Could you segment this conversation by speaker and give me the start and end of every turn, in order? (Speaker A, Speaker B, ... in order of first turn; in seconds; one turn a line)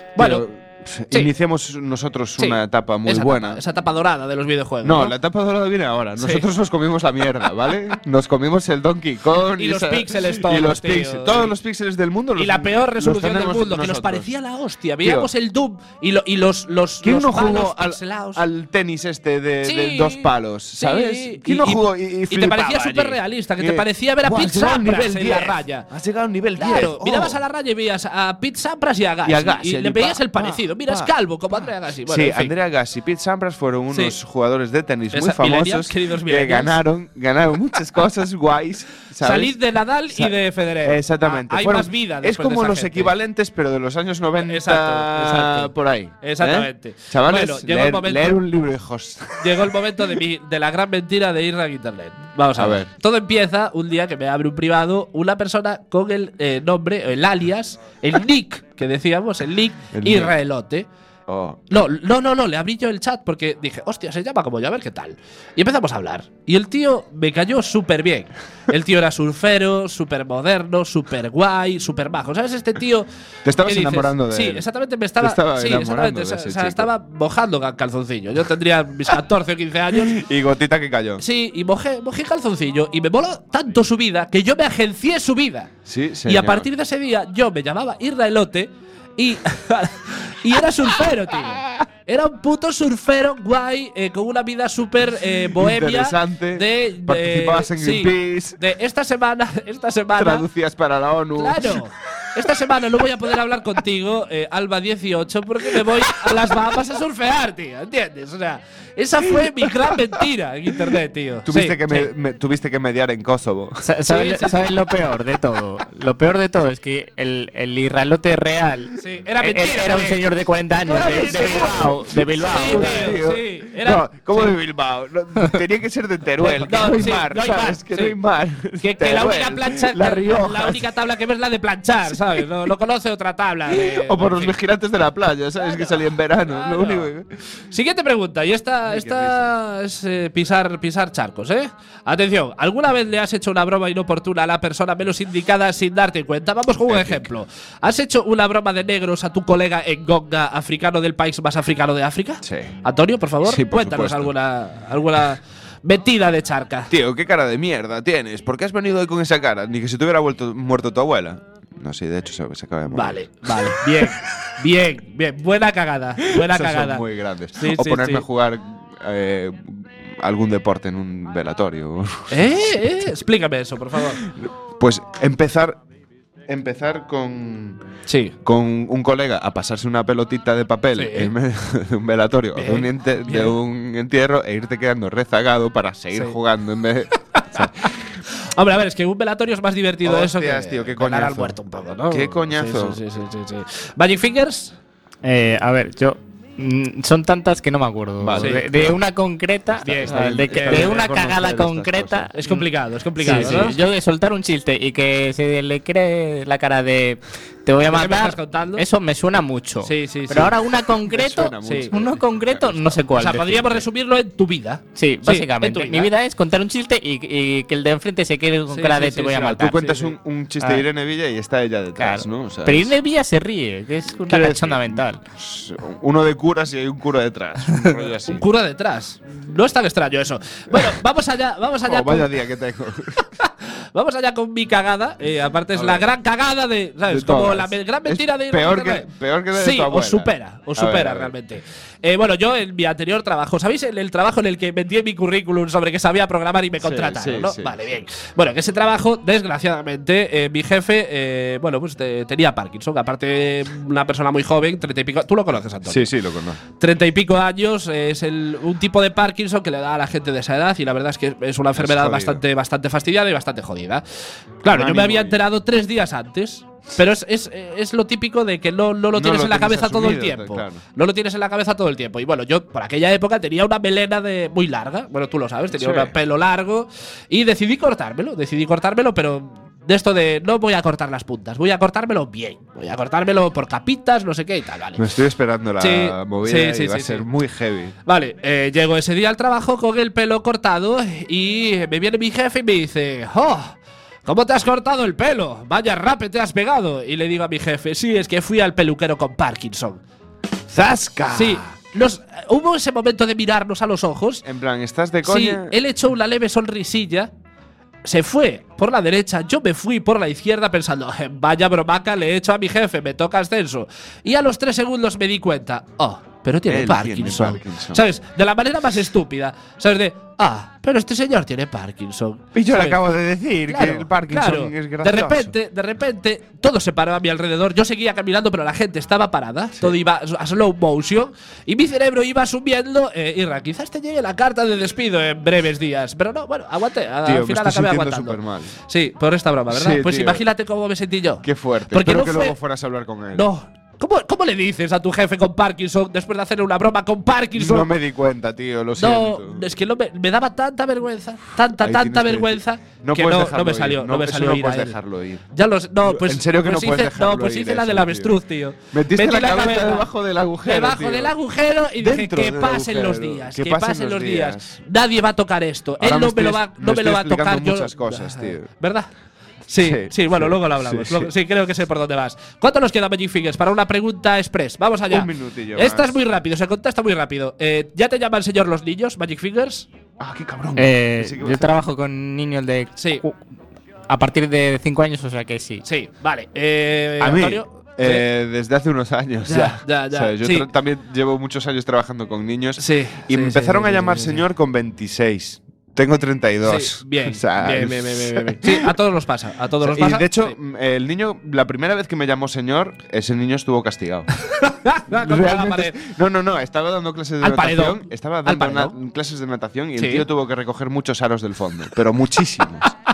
Speaker A: 0.1-0.5
Speaker B: 0.2-3.6
Speaker A: 2.4-5.2
Speaker B: 4.8-14.3
Speaker A: 6.2-6.5
Speaker A: 9.6-11.5
Speaker A: 12.3-18.4
Speaker B: 15.0-15.3
Speaker B: 17.0-27.4
Speaker A: 19.6-25.9
Speaker A: 26.6-32.5
Speaker B: 29.2-31.1
Speaker B: 32.0-39.6
Speaker A: 35.1-36.8
Speaker A: 39.2-43.1
Speaker B: 40.1-50.1
Speaker A: 44.4-48.4
Speaker A: 49.4-60.9
Speaker B: 52.6-52.9
Speaker B: 59.9-60.3
Speaker B: 61.3-61.8
Speaker A: 61.7-73.1
Speaker B: 73.4-74.7
Speaker A: 73.6-80.2
Speaker B: 75.2-76.9
Speaker B: 79.9-81.2
Speaker A: 81.2-85.7
Speaker B: 85.8-86.7
Speaker A: 86.2-100.5
Speaker B: 95.5-98.6
Speaker B: 100.2-101.8
Speaker A: 101.3-112.1
Speaker B: 105.8-106.6
Speaker B: 109.2-110.0
Speaker B: 111.5-113.8
Speaker C: 113.8-123.2
Speaker A: 114.1-114.7
Speaker A: 119.0-120.2
Speaker A: 120.9-121.9
Speaker B: 120.9-130.8
Speaker A: 122.5-124.5
Speaker A: 126.4-128.2
Speaker A: 128.8-134.6
Speaker B: 132.1-132.7
Speaker B: 133.7-137.2
Speaker A: 135.6-137.1
Speaker A: 137.7-156.9
Speaker B: 138.8-139.5
Speaker B: 146.8-147.2
Speaker B: 152.4-152.7
Speaker B: 153.4-154.3
Speaker B: 156.9-164.2
Speaker A: 162.9-167.0
Speaker B: 166.3-172.7
Speaker A: 167.6-168.2
Speaker A: 172.3-174.2
Speaker B: 174.2-175.8
Speaker B: 176.5-177.8
Speaker A: 178.1-178.3
Speaker B: 178.4-187.9
Speaker A: 180.9-181.3
Speaker A: 182.6-183.6
Speaker A: 187.3-187.9
Speaker A: 188.4-194.8
Speaker B: 190.0-191.6
Speaker B: 192.1-193.0
Speaker C: 195.2-213.8
Speaker B: 198.2-199.0
Speaker A: 198.4-198.9
Speaker A: 199.8-201.1
Speaker B: 199.9-202.3
Speaker A: 202.3-203.8
Speaker B: 203.3-203.7
Speaker A: 207.8-208.8
Speaker A: 209.8-210.5
Speaker B: 211.1-213.1
Speaker A: 211.6-211.9
Speaker A: 213.2-216.1
Speaker C: 214.9-220.0
Speaker A: 218.7-219.5
Speaker B: 219.3-223.0
Speaker C: 220.6-220.8
Speaker C: 221.9-225.2
Speaker B: 224.2-228.4
Speaker A: 228.2-232.3
Speaker B: 231.8-233.2
Speaker A: 233.4-256.1
Speaker B: 235.7-236.1
Speaker B: 237.1-241.3
Speaker B: 246.8-247.8
Speaker B: 255.8-256.6
Speaker A: 256.8-264.0
Speaker B: 261.7-262.4
Speaker A: 264.6-285.0
Speaker B: 264.7-265.4
Speaker B: 269.1-270.8
Speaker B: 275.7-276.1
Speaker B: 284.9-287.9
Speaker A: 285.8-287.2
Speaker A: 288.1-300.0
Speaker B: 300.7-301.7
Speaker A: 301.3-304.4
Speaker B: 304.4-305.8
Speaker A: 305.2-307.3
Speaker A: 308.0-323.0
Speaker B: 316.7-318.0
Speaker B: 322.5-325.5
Speaker A: 323.7-342.6
Speaker B: 337.2-338.7
Speaker B: 339.7-340.4
Speaker B: 341.4-343.5
Speaker A: 343.3-347.9
Speaker B: 347.5-349.7
Speaker A: 349.0-355.0
Speaker B: 351.8-355.4
Speaker A: 355.5-360.1
Speaker B: 356.0-358.3
Speaker B: 358.9-361.3
Speaker A: 360.6-369.1
Speaker B: 362.0-364.8
Speaker B: 366.0-368.7
Speaker A: 369.7-379.9
Speaker B: 369.8-371.3
Speaker B: 375.1-376.2
Speaker B: 380.2-381.8
Speaker C: 380.8-383.4
Speaker A: 383.0-383.2
Speaker C: 384.1-385.8
Speaker A: 385.8-388.2
Speaker B: 387.2-398.9
Speaker A: 389.4-390.7
Speaker A: 392.8-394.4
Speaker A: 396.6-400.6
Speaker B: 399.8-404.3
Speaker A: 404.5-406.0
Speaker B: 405.1-412.9
Speaker A: 407.4-408.9
Speaker A: 409.9-410.2